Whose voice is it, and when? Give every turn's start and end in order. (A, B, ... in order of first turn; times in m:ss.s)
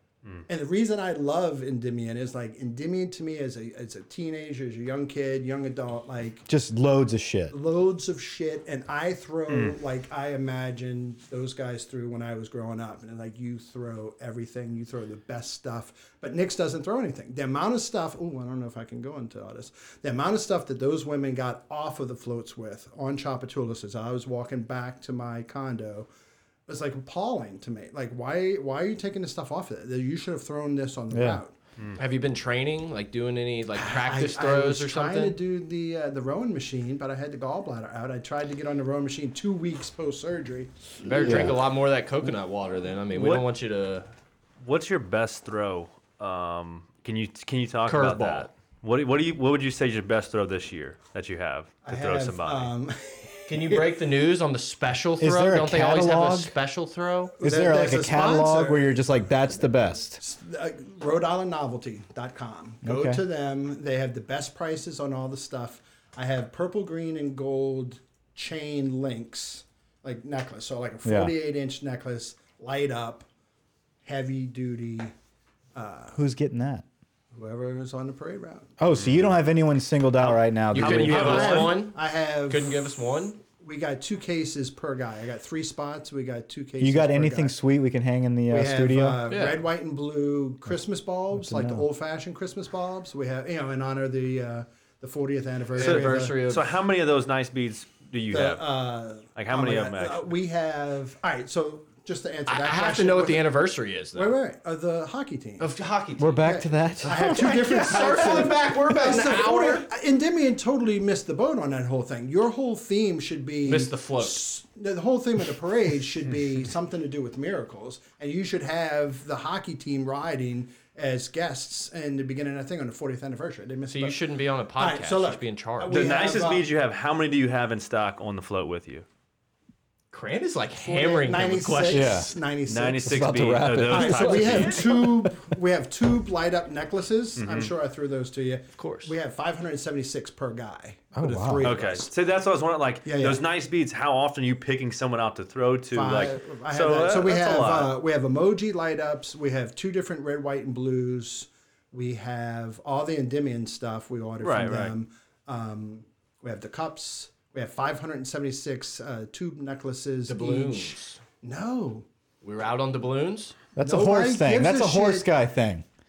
0:00.5-0:06.5 A
0:06.5-0:07.6 B
0:07.5-0:26.1 A
0:09.5-0:09.8 C
0:26.7-0:31.5 A
0:31.1-0:31.4 B
0:32.0-0:35.4 D
0:33.8-0:41.5 A
0:41.0-0:44.1 D
0:41.2-0:41.6 B
0:44.6-0:52.7 C
0:47.9-0:48.5 D
0:51.8-0:53.8 A
0:53.5-0:57.3 D
0:55.2-0:56.5 B
0:57.4-0:58.9 A
0:57.4-1:00.2 B
1:00.2-1:13.3 A
1:02.8-1:03.2 B
1:11.0-1:11.4 B
1:14.0-1:15.1 A
1:15.8-1:16.2 A
1:16.1-1:16.8 B
1:17.3-1:18.7 A
1:18.8-1:21.4 B
1:18.9-1:19.4 C
1:20.7-1:23.4 D
1:20.8-1:21.8 C
1:20.9-1:22.8 A
1:23.6-1:27.5 A
1:26.8-1:29.2 B
1:28.5-1:36.4 A
1:29.3-1:29.6 D
1:31.3-1:31.8 B
1:35.8-1:36.6 D
1:35.8-1:38.6 C
1:38.3-1:43.5 A
1:39.4-1:40.2 C
1:42.5-1:44.4 D
1:44.2-1:45.7 A
1:45.6-1:46.5 D
1:46.2-1:47.8 B
1:46.4-2:04.2 A
1:47.0-1:49.9 D
1:53.6-1:54.4 D
2:03.9-2:06.0 D
2:04.8-2:06.7 A
2:05.9-2:09.0 C
2:10.1-2:12.2 D
2:10.8-2:13.3 A
2:11.9-2:12.3 B
2:12.7-2:14.9 C
2:13.0-2:15.5 B
2:13.9-2:22.1 A
2:14.4-2:14.8 D
2:17.4-2:17.7 C
2:18.8-2:19.1 D
2:21.2-2:21.8 B
2:21.6-2:27.9 C
2:23.0-2:23.4 A
2:25.9-2:42.1 A
2:34.4-2:34.9 C
2:40.3-2:41.2 D
2:42.4-2:43.6 D
2:43.8-2:45.8 B
2:43.8-2:45.3 A